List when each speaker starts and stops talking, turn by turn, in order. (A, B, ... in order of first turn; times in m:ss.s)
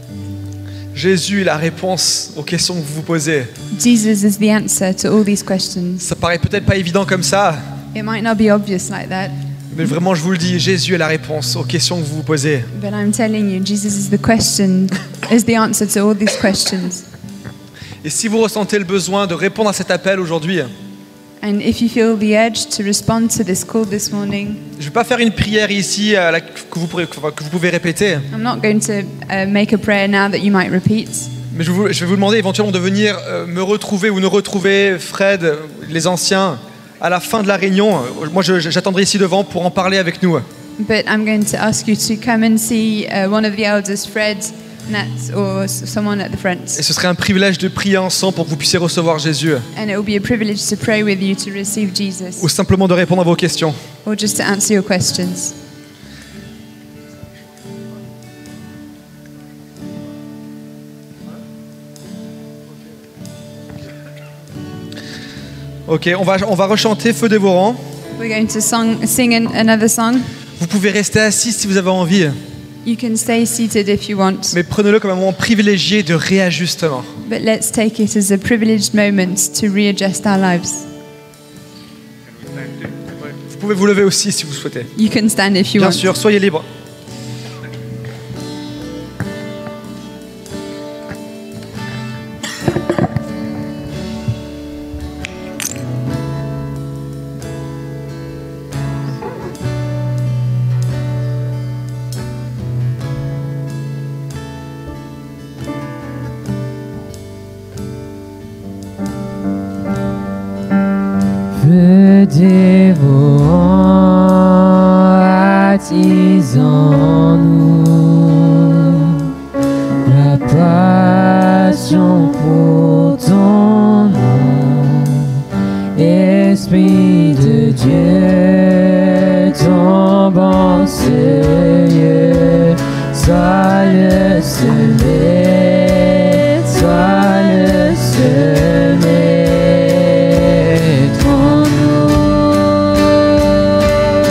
0:00.9-0:03.5 A
0:03.7-0:06.1 B
0:06.0-0:07.6 A
0:07.9-0:09.4 B
0:09.7-0:12.7 A
0:12.7-0:17.1 B
0:18.0-0:20.7 A
0:21.4-0:24.7 B
0:24.8-0:28.3 A
0:28.3-0:31.3 B
0:31.5-0:40.5 A
0:40.8-0:46.8 B
0:46.8-0:49.7 A
0:49.7-0:52.5 B
0:52.4-0:53.8 A
0:54.0-0:55.6 B
1:05.9-1:07.8 A
1:08.2-1:10.3 B
1:10.6-1:12.4 A
1:12.8-1:14.6 B
1:14.5-1:17.1 A
1:17.2-1:20.9 B
1:23.3-1:24.9 A
1:25.0-1:26.1 B
1:25.8-1:26.7 A
1:51.5-1:59.3 C
2:00.0-2:23.1 C